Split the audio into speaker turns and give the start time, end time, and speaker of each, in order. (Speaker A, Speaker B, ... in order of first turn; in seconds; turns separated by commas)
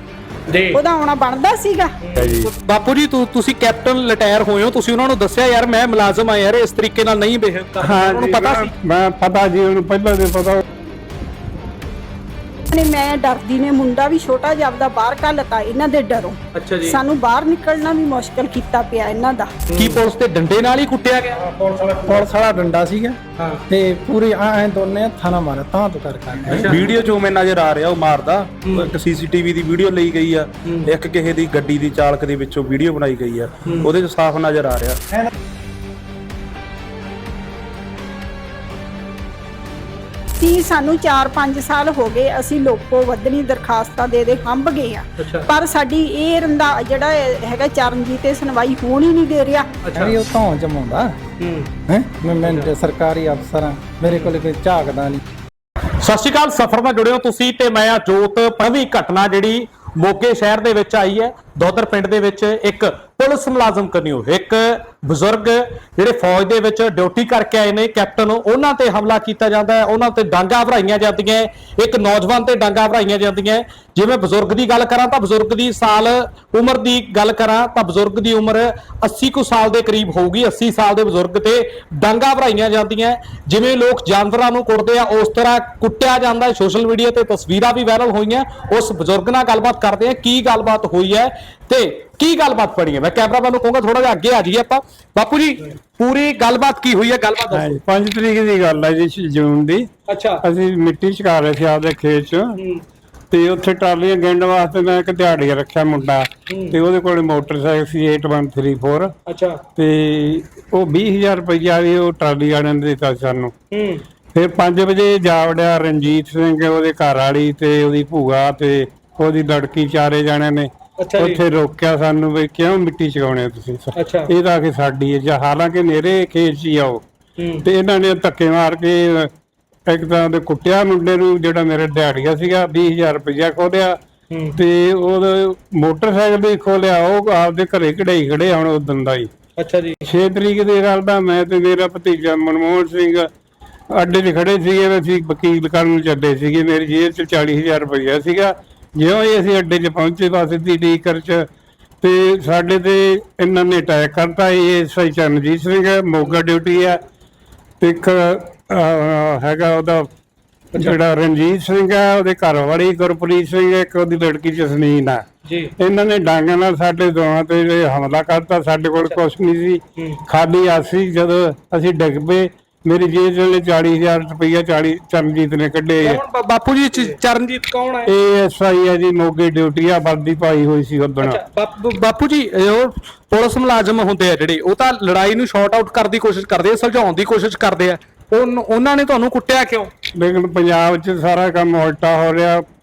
Speaker A: 0.5-0.8, Speaker B: 0.7-2.0, Speaker A: 2.0-8.7, Speaker C: 2.2-2.5, Speaker C: 7.8-10.6, Speaker B: 12.7-19.5, Speaker A: 16.5-17.0, Speaker A: 19.7-21.5, Speaker D: 22.0-23.2, Speaker A: 23.4-23.6, Speaker D: 23.7-26.8, Speaker A: 26.5-26.9, Speaker E: 26.7-35.0, Speaker A: 28.6-28.9, Speaker A: 33.6-33.9, Speaker B: 40.4-49.7, Speaker A: 45.2-45.5, Speaker A: 49.8-50.2, Speaker D: 50.0-51.2, Speaker A: 51.4-51.7, Speaker D: 51.9-55.2, Speaker A: 52.4-52.7, Speaker A: 56.0-97.8, Speaker C: 97.5-99.9, Speaker A: 100.1-100.4, Speaker C: 100.4-102.6, Speaker A: 102.6-102.8, Speaker C: 103.3-109.1, Speaker A: 106.5-106.8, Speaker A: 109.3-109.6, Speaker C: 109.8-113.5, Speaker A: 113.7-114.0, Speaker C: 114.3-127.0, Speaker A: 121.0-121.4, Speaker A: 124.0-124.3, Speaker A: 127.4-127.7, Speaker C: 127.6-129.3, Speaker C: 129.9-134.0, Speaker A: 134.3-134.6, Speaker C: 134.6-139.3, Speaker A: 139.6-140.0, Speaker C: 140.1-143.3, Speaker C: 143.9-151.5, Speaker C: 152.0-157.0, Speaker C: 157.8-160.1, Speaker C: 160.8-165.2, Speaker A: 165.4-165.7, Speaker C: 165.8-176.2, Speaker A: 176.0-178.1, Speaker C: 178.1-181.4, Speaker A: 181.2-189.9, Speaker C: 190.2-192.6